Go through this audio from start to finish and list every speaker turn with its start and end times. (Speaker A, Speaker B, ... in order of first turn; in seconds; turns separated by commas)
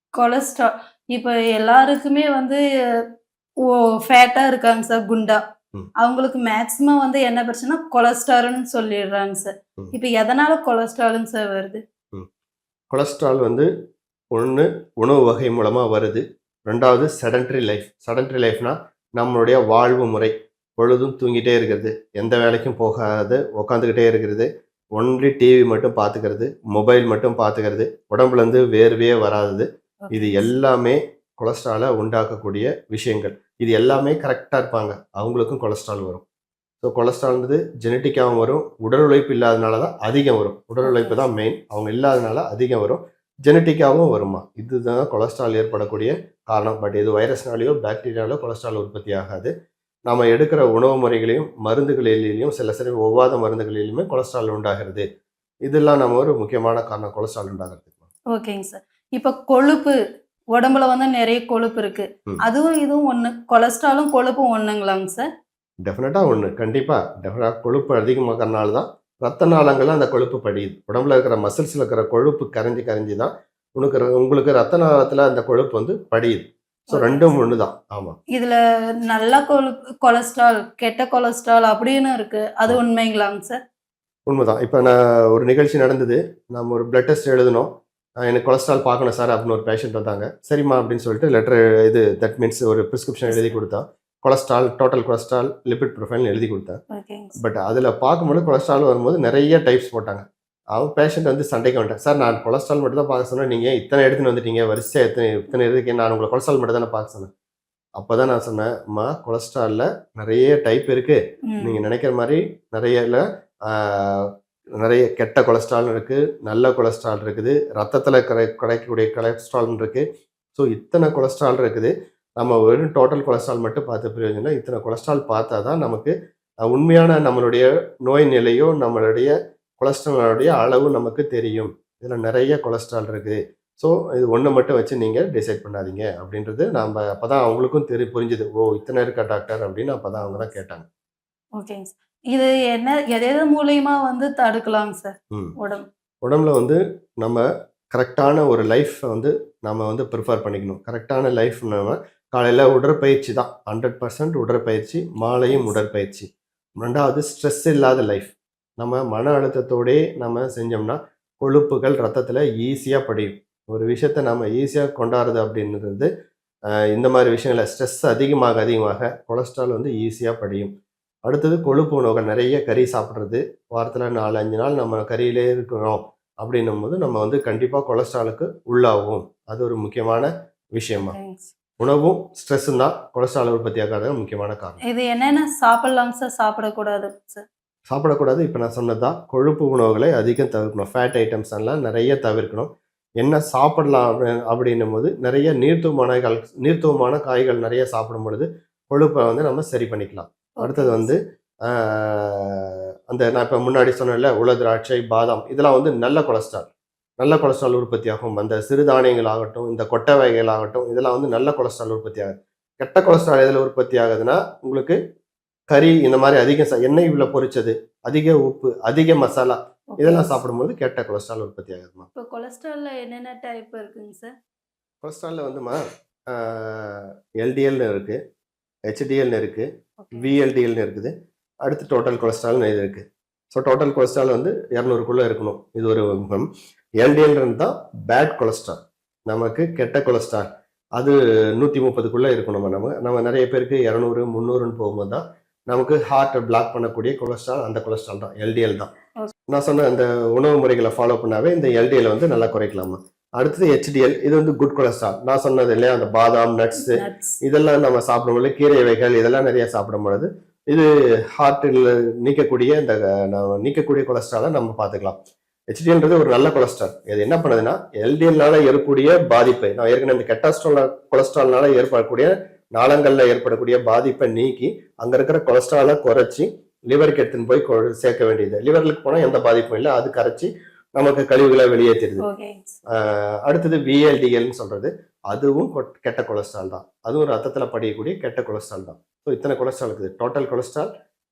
Speaker A: 0.1-2.6, Speaker A: 3.6-5.4, Speaker A: 6.0-11.8, Speaker B: 12.9-13.7, Speaker B: 14.3-36.2, Speaker A: 30.0-30.5, Speaker B: 36.8-49.5, Speaker A: 40.8-41.2, Speaker B: 50.1-55.0, Speaker B: 55.6-57.9, Speaker A: 58.3-60.0, Speaker A: 60.5-65.3, Speaker B: 65.8-78.2, Speaker A: 76.9-77.4, Speaker A: 78.3-83.6, Speaker B: 84.3-87.7, Speaker B: 88.2-96.8, Speaker A: 93.3-93.6, Speaker A: 96.9-97.4, Speaker B: 97.4-100.2, Speaker B: 100.7-107.3, Speaker B: 108.0-114.3, Speaker A: 111.5-111.8, Speaker B: 114.8-120.0, Speaker B: 120.5-126.1, Speaker B: 126.7-140.8, Speaker A: 140.2-140.5, Speaker A: 141.6-145.8, Speaker B: 146.2-156.3, Speaker A: 155.5-155.8, Speaker B: 156.8-166.1, Speaker B: 166.9-170.7, Speaker B: 171.3-181.2, Speaker A: 181.0-181.5, Speaker B: 181.8-184.8, Speaker A: 184.8-187.5, Speaker B: 187.9-206.7, Speaker A: 200.6-201.1, Speaker B: 207.2-212.3, Speaker B: 212.8-215.0, Speaker B: 215.7-222.1, Speaker A: 219.9-220.4, Speaker A: 222.1-224.3, Speaker B: 225.0-225.8, Speaker B: 226.3-228.2, Speaker B: 228.9-231.1, Speaker A: 230.0-230.3, Speaker B: 231.7-236.5, Speaker B: 237.0-248.9, Speaker B: 249.5-265.2, Speaker A: 256.8-257.4, Speaker B: 265.7-282.2, Speaker A: 282.2-282.8, Speaker B: 283.0-290.9